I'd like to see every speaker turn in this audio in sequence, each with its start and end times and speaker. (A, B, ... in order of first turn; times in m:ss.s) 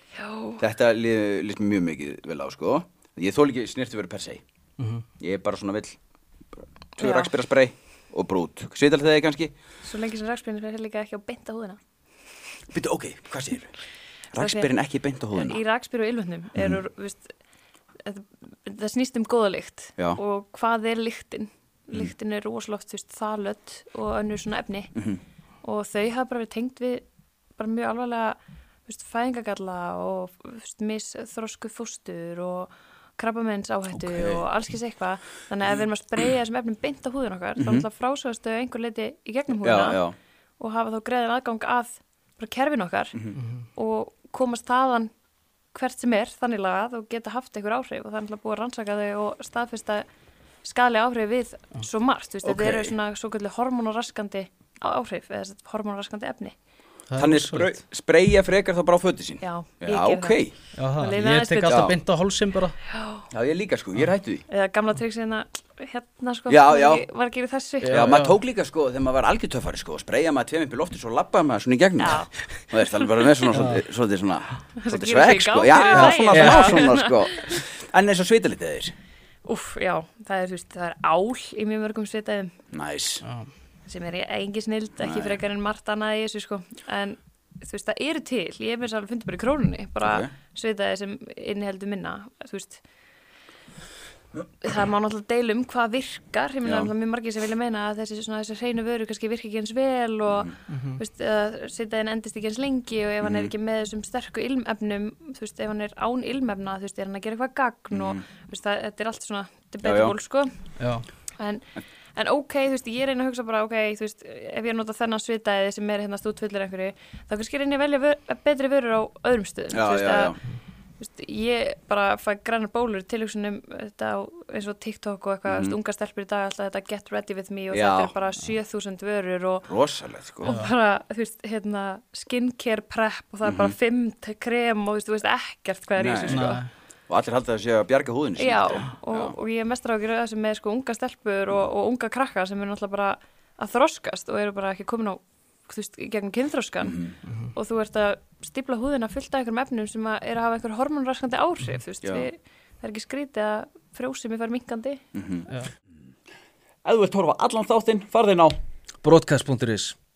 0:00.2-0:00.6 A
0:00.6-0:04.4 B
0:05.2-0:06.0 B
0:07.0-0:09.5 B
0:07.0-0:07.3 A
0:09.8-0:11.8 A
0:12.7-0:13.7 B
0:14.3-0:15.6 B
0:14.4-0:14.7 A
0:15.3-0:17.3 A
0:18.0-0:24.9 A
0:25.6-0:27.0 A
0:27.6-0:40.0 A
0:34.0-0:34.4 B
0:37.6-0:37.8 B
0:39.6-0:40.1 B
0:40.6-0:43.2 A
0:43.7-0:45.1 A
0:45.7-0:50.0 A
0:50.6-0:56.5 A
0:52.4-0:52.9 B
0:57.1-0:57.8 C
0:57.1-1:00.6 B
0:59.4-1:02.0 A
1:00.8-1:02.8 C
1:01.6-1:01.9 B
1:02.9-1:03.3 A
1:03.3-1:04.4 B
1:04.5-1:08.1 A
1:06.5-1:07.0 B
1:07.8-1:08.3 C
1:07.9-1:18.9 B
1:12.0-1:13.1 A
1:13.5-1:13.8 C
1:14.8-1:17.6 A
1:15.9-1:16.8 C
1:19.4-1:22.5 A
1:22.7-1:23.2 B
1:23.2-1:23.5 C
1:23.8-1:32.8 A
1:25.0-1:25.4 B
1:30.0-1:30.3 B
1:34.6-1:50.7 A
1:36.6-1:36.9 B
1:40.7-1:41.0 C
1:43.2-1:43.5 B
1:47.9-1:48.2 B
1:49.8-1:50.1 B
1:50.8-1:51.0 C
1:51.4-2:09.7 A
1:59.7-2:00.4 B
2:05.5-2:05.8 B
2:07.7-2:08.2 B
2:09.7-2:10.5 B
2:10.4-2:16.6 A
2:13.4-2:13.7 B
2:16.0-2:16.6 B
2:16.3-2:16.6 C
2:17.1-2:19.3 B
2:18.4-2:35.0 A
2:26.8-2:27.2 B
2:32.0-2:32.3 B
2:35.1-2:35.5 B
2:36.8-2:38.6 B
2:39.0-2:40.0 C